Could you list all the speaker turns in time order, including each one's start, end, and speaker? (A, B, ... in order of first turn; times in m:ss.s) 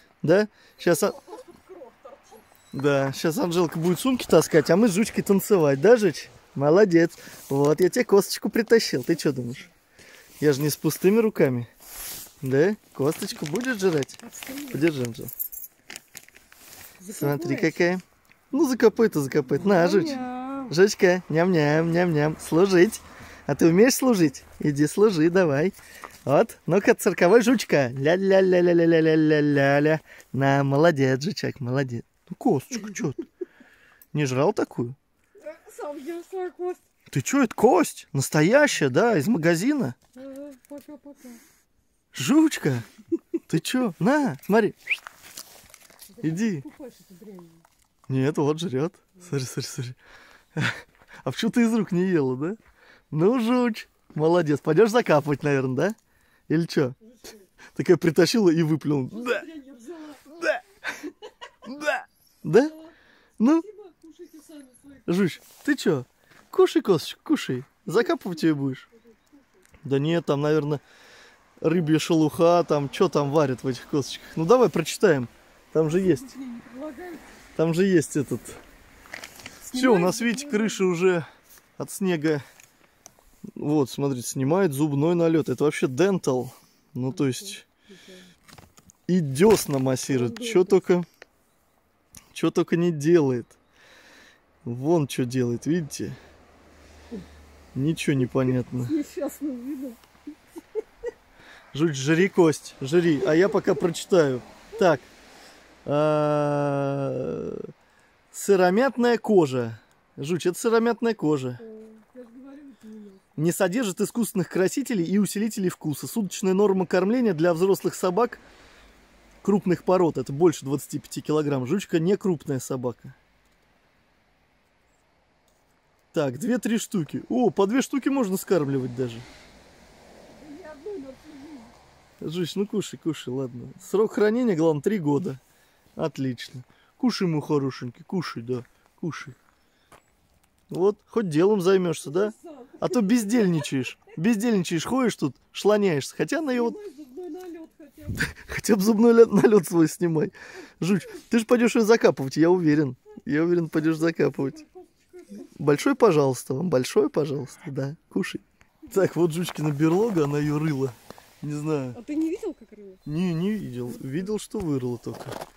0:00.2-0:01.2 A
0:00.8-0:02.4 B
0:02.7-0:09.7 A
0:09.3-0:09.6 B
0:10.4-0:11.7 A
0:12.4-0:15.3 A
0:14.2-0:14.9 B
0:17.0-0:17.9 B
0:17.1-0:33.2 A
0:19.6-0:20.7 B
0:34.1-0:35.0 A
0:35.4-0:36.8 B
0:37.1-0:40.0 A
0:40.1-0:41.4 B
0:42.1-0:42.9 A
0:43.5-0:44.8 A
0:46.1-0:47.6 B
0:46.2-0:46.6 A
0:48.1-0:50.0 A
0:50.5-0:52.6 A
0:53.1-0:56.0 A
0:56.5-0:57.0 A
0:57.0-0:57.5 B
0:57.7-0:59.4 A
0:59.1-1:01.3 B
1:01.6-1:02.8 A
1:02.6-1:05.1 B
1:03.4-1:03.6 A
1:05.1-1:08.9 A
1:07.9-1:09.3 B
1:09.8-1:10.8 A
1:11.6-1:16.3 A
1:15.8-1:17.3 B
1:17.6-1:18.6 A
1:19.6-1:20.8 B
1:19.7-1:21.2 A
1:21.8-1:22.4 A
1:23.6-1:27.6 A
1:27.1-1:28.3 B
1:29.1-1:31.0 A
1:30.1-1:30.8 B
1:32.3-1:33.6 A
1:34.6-1:36.2 A
1:37.7-1:39.0 A
1:38.2-1:40.0 B
1:41.7-1:45.1 A
1:43.4-1:43.7 B
1:45.8-1:47.7 A
1:48.3-1:51.6 A
1:51.6-1:53.4 B
1:53.4-1:58.4 A
1:59.4-2:03.2 A
2:06.1-2:09.2 A
2:10.3-2:11.8 B
2:12.2-2:15.4 A
2:16.0-2:19.4 A
2:20.7-2:26.8 A
2:22.0-2:24.2 B
2:26.5-2:28.2 B
2:28.1-2:34.6 A
2:30.8-2:31.2 B
2:33.6-2:35.9 B
2:35.4-2:42.0 A
2:41.9-2:43.0 B
2:43.0-2:45.4 A